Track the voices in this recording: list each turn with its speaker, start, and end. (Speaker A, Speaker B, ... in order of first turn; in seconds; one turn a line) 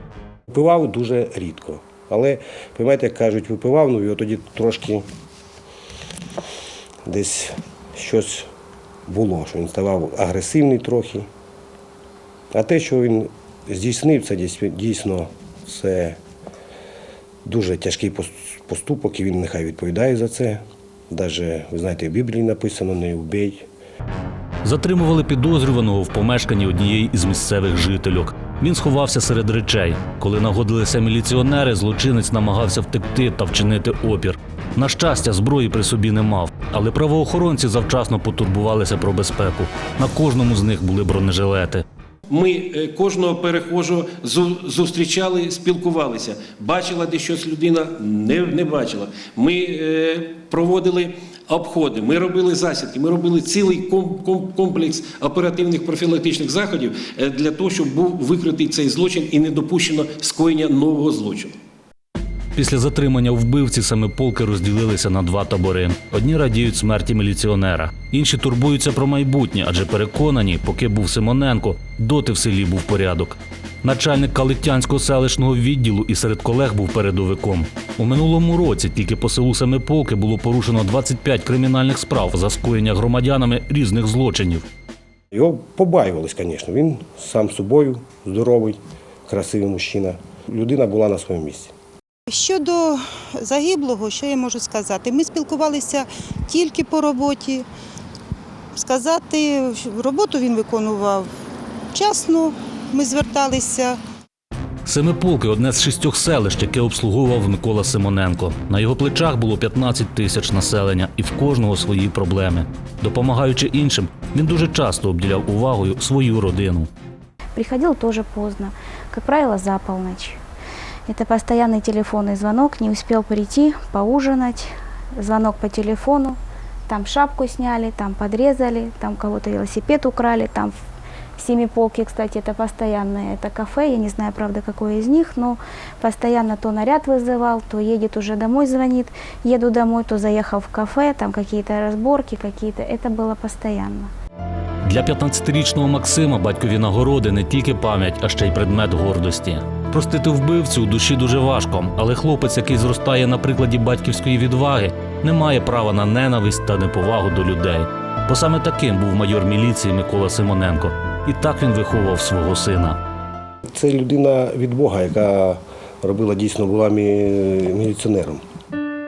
Speaker A: 0.5-5.0
Speaker A: 7.1-8.5
Speaker A: 9.1-11.3
Speaker A: 12.5-16.2
Speaker A: 17.4-23.7
Speaker B: 24.6-41.8
Speaker C: 42.3-61.5
Speaker B: 62.5-84.7
Speaker A: 85.3-91.7
Speaker D: 92.3-97.7
Speaker D: 98.8-101.3
Speaker D: 101.9-104.0
Speaker B: 104.8-116.9
Speaker E: 117.5-120.4
Speaker E: 121.1-130.7
Speaker E: 131.4-144.1
Speaker B: 144.8-163.0
Speaker A: 163.7-168.4